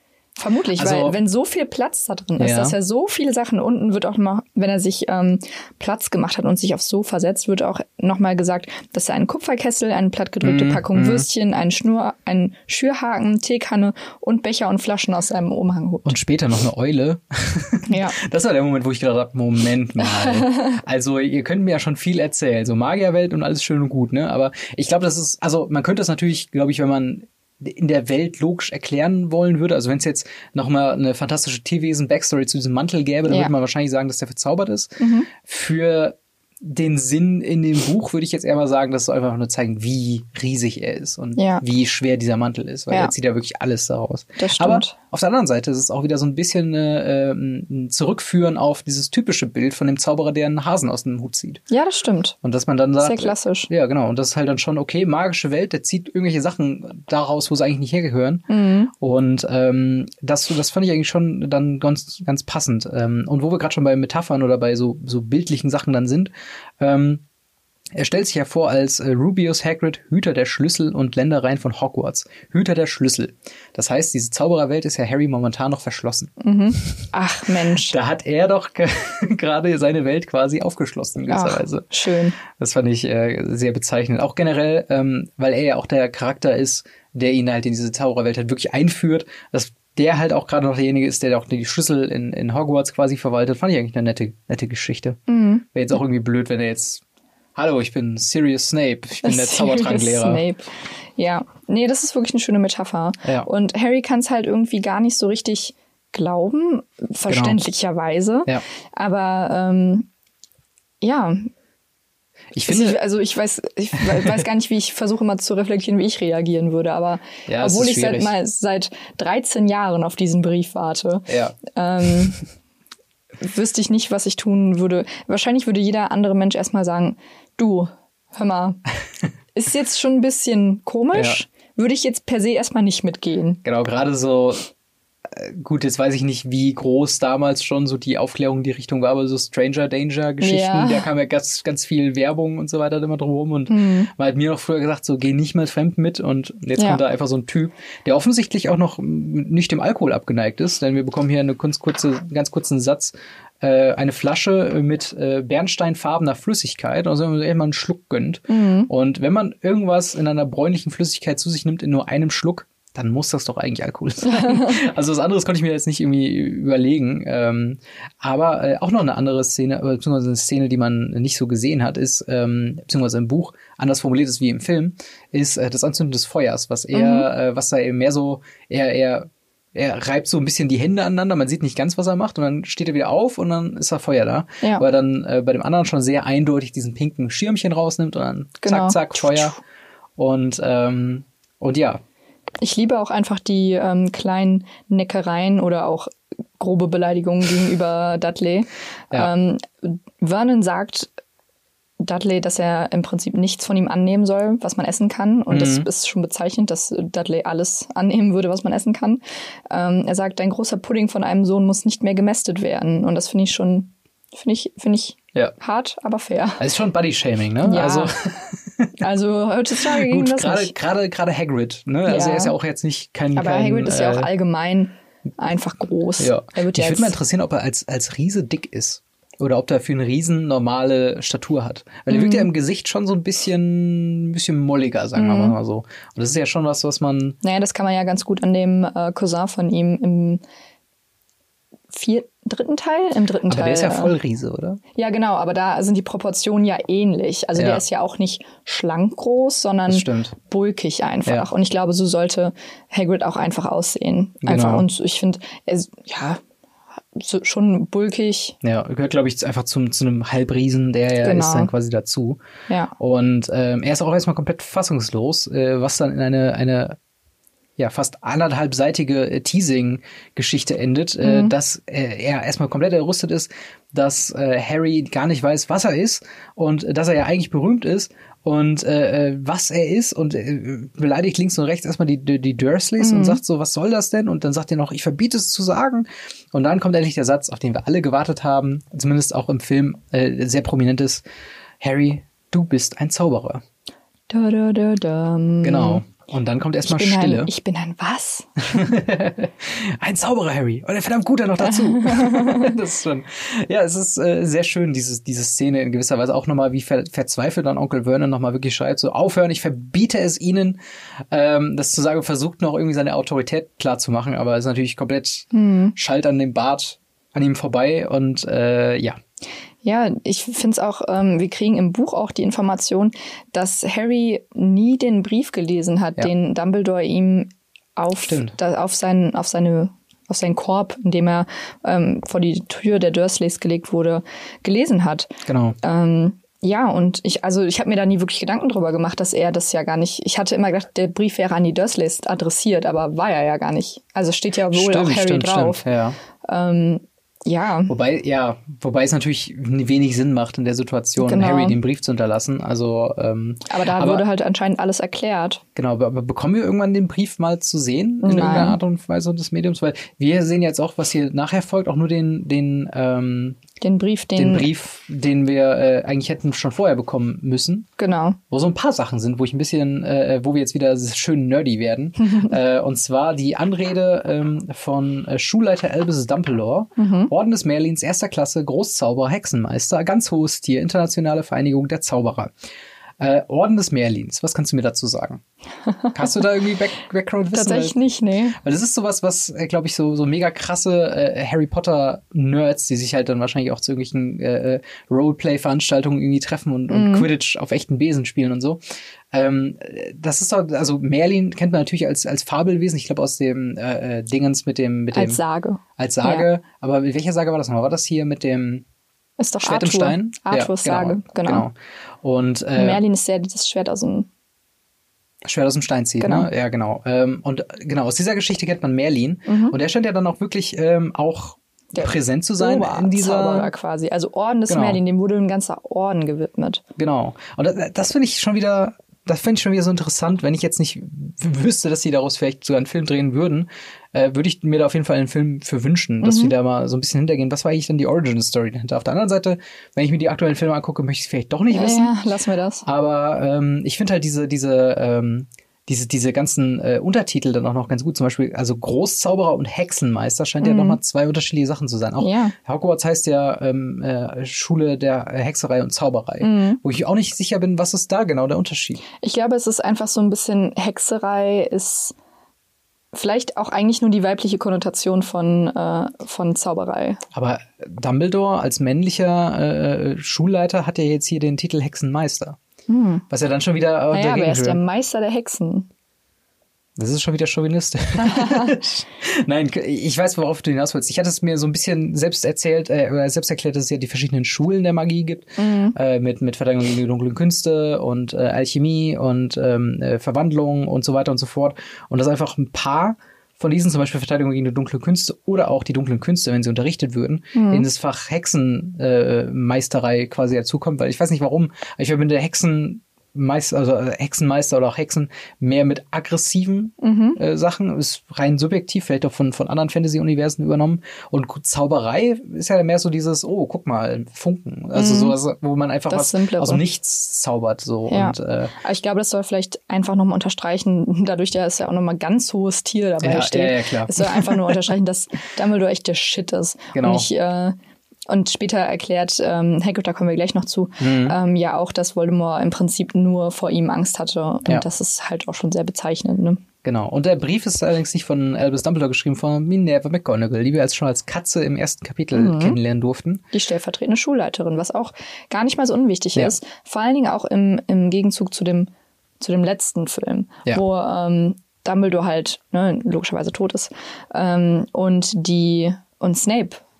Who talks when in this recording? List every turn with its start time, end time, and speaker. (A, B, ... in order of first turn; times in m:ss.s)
0:00.4-0:16.2 A
0:00.8-0:01.2 B
0:02.4-0:02.8 B
0:10.4-0:11.3 B
0:16.1-0:51.6 B
0:17.9-0:18.2 A
0:20.3-0:20.7 A
0:35.0-0:35.3 A
0:41.4-0:41.6 A
0:44.4-0:45.0 A
0:51.7-0:52.4 A
0:52.4-1:07.2 B
0:53.0-0:53.7 A
0:58.5-0:58.9 A
1:07.9-1:16.3 B
1:16.4-1:18.0 A
1:17.8-1:21.9 B
1:21.3-1:22.4 A
1:22.5-1:35.2 B
1:35.3-1:35.7 A
1:35.7-1:37.0 B
1:37.6-1:40.4 B
1:39.2-1:50.1 A
1:43.2-1:43.5 B
1:47.3-1:47.6 B
1:51.0-1:51.5 A
1:52.5-1:53.0 B
1:52.6-2:02.4 A
1:57.5-1:58.3 B
2:01.3-2:01.6 B
2:03.4-2:08.8 A
2:09.5-2:13.6 A
2:11.1-2:11.4 B
2:13.6-2:14.7 B
2:15.3-3:09.6 B
2:20.4-2:21.1 A
2:23.7-2:24.1 A
2:26.8-2:27.0 A
2:38.5-2:38.9 A
2:44.2-2:44.8 A
2:56.9-2:57.3 A
3:08.6-3:09.6 A
3:10.2-3:12.0 B
3:12.6-3:21.1 A
3:22.0-3:36.6 A
3:25.5-3:25.9 B
3:36.6-3:38.9 B
3:37.6-3:38.1 A
3:39.0-3:40.7 A
3:39.8-3:44.3 B
3:42.1-3:42.6 A
3:43.3-3:47.2 A
3:46.2-3:57.4 B
3:52.1-3:52.5 A
3:55.2-3:55.6 A
3:57.4-4:00.4 A
4:01.9-4:04.2 A
4:03.5-4:04.8 B
4:05.0-4:16.4 A
4:07.6-4:07.8 B
4:09.9-4:10.3 B
4:14.4-4:14.9 B
4:17.2-4:18.6 A
4:18.6-4:22.4 B
4:21.2-4:21.7 A
4:23.0-4:27.0 B
4:27.8-4:51.2 B
4:31.2-4:31.6 A
4:43.0-4:43.4 A
4:51.8-4:53.6 B
4:54.3-4:56.0 A
4:55.6-4:57.5 B
4:56.8-4:58.9 A
4:58.7-5:10.8 B
5:01.6-5:02.8 A
5:11.3-5:19.2 B
5:15.5-5:16.0 A
5:19.8-5:45.8 A
5:28.2-5:28.6 B
5:35.5-5:35.8 B
5:44.7-5:46.2 B
5:46.4-5:47.9 A
5:47.9-5:54.2 B
5:51.2-5:51.8 A
5:53.7-5:55.6 A
5:55.8-6:03.6 B
5:58.2-5:58.8 A
6:03.8-6:04.7 A
6:04.4-6:07.9 B
6:08.0-6:08.4 A
6:08.5-6:22.5 B
6:12.2-6:12.5 A
6:17.0-6:17.3 A
6:23.2-6:25.4 B
6:25.9-6:26.3 A
6:26.1-6:28.0 B
6:27.5-6:28.6 A
6:28.6-6:38.8 B
6:36.9-6:37.3 A
6:39.3-6:45.4 B
6:45.1-6:46.5 A
6:46.0-6:48.8 B
6:49.4-6:51.7 A
6:49.6-6:53.0 B
6:52.8-6:54.3 A
6:55.4-7:03.7 B
6:56.2-6:56.5 A
6:59.5-6:59.8 A
7:01.9-7:06.8 A
7:04.7-7:05.0 B
7:07.0-7:22.1 B
7:16.2-7:16.5 A
7:21.7-7:22.8 A
7:22.8-7:39.0 B
7:30.6-7:31.0 A
7:32.2-7:32.5 A
7:36.4-7:36.8 A
7:39.2-7:42.2 A
7:43.1-7:47.2 A
7:47.3-7:52.6 B
7:52.9-7:53.2 A
7:53.3-7:54.8 B
7:54.1-7:55.9 A
7:57.0-8:38.7 B
7:58.2-7:58.8 A
8:05.6-8:06.0 A
8:17.5-8:17.9 A
8:27.0-8:27.4 A
8:34.9-8:35.4 A
8:36.1-8:36.8 A
8:38.1-8:47.8 A
8:43.2-8:44.8 B
8:46.9-8:47.3 B
8:48.3-8:56.6 A
8:51.0-8:51.4 B
8:56.8-9:03.4 B
9:02.3-9:02.8 A
9:03.5-9:16.8 A